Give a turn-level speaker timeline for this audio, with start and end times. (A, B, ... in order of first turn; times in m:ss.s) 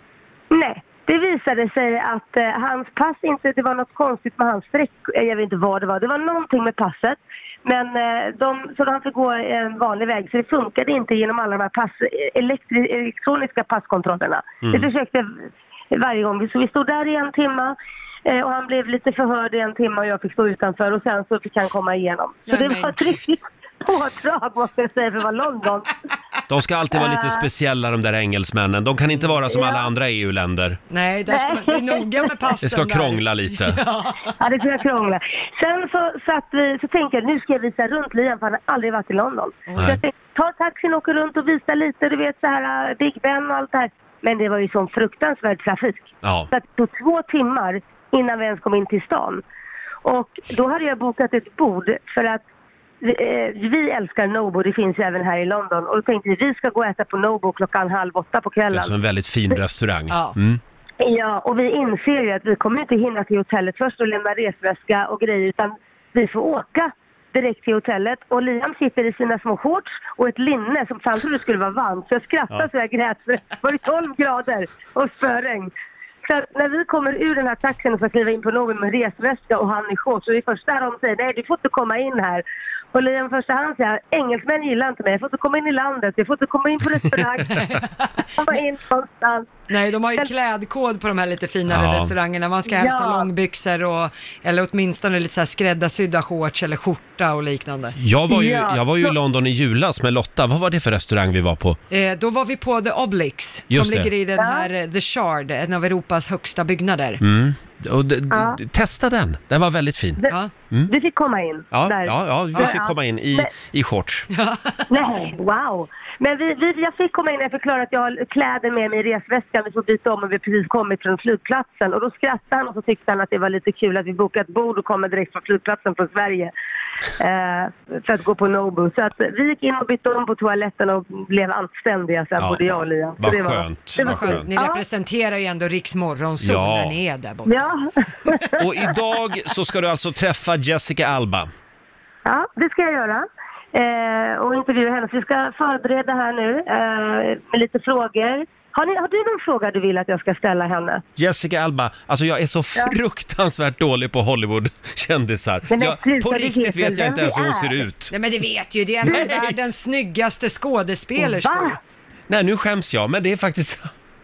0:00.5-0:15.4 A
0:14.6-0:14.9 B
0:15.9-0:17.8 A
0:18.3-0:25.9 A
0:22.5-0:23.3 C
0:26.5-0:30.8 B
0:27.0-0:27.5 A
0:29.5-0:29.9 A
0:30.9-0:34.4 C
0:31.3-0:32.3 A
0:32.6-0:33.8 B
0:34.4-0:49.4 A
0:46.2-0:46.5 B
0:50.0-0:52.4 A
0:53.0-0:58.9 A
0:58.7-1:00.6 B
1:00.1-1:00.4 C
1:01.0-1:15.7 A
1:16.2-1:27.6 A
1:27.5-1:28.3 C
1:28.4-1:29.5 A
1:29.7-1:38.0 C
1:31.7-1:32.1 B
1:32.7-1:33.3 A
1:38.0-1:41.8 B
1:38.3-1:39.1 A
1:41.9-1:47.2 C
1:43.7-1:44.1 B
1:44.4-1:44.7 A
1:47.2-1:50.9 B
1:48.3-1:48.6 A
1:50.9-1:53.5 A
1:51.7-1:54.3 B
1:54.3-1:55.0 C
1:54.9-2:06.5 A
2:07.2-2:14.8 A
2:12.4-2:12.6 B
2:13.2-2:14.5 B
2:14.0-2:17.5 C
2:16.4-2:17.0 B
2:17.4-2:18.9 A
2:18.6-2:21.5 B
2:22.3-2:31.0 A
2:31.2-2:38.1 B
2:35.7-2:37.8 A
2:38.1-2:41.8 C
2:39.0-2:39.6 B
2:41.2-2:41.8 A
2:42.3-2:43.9 B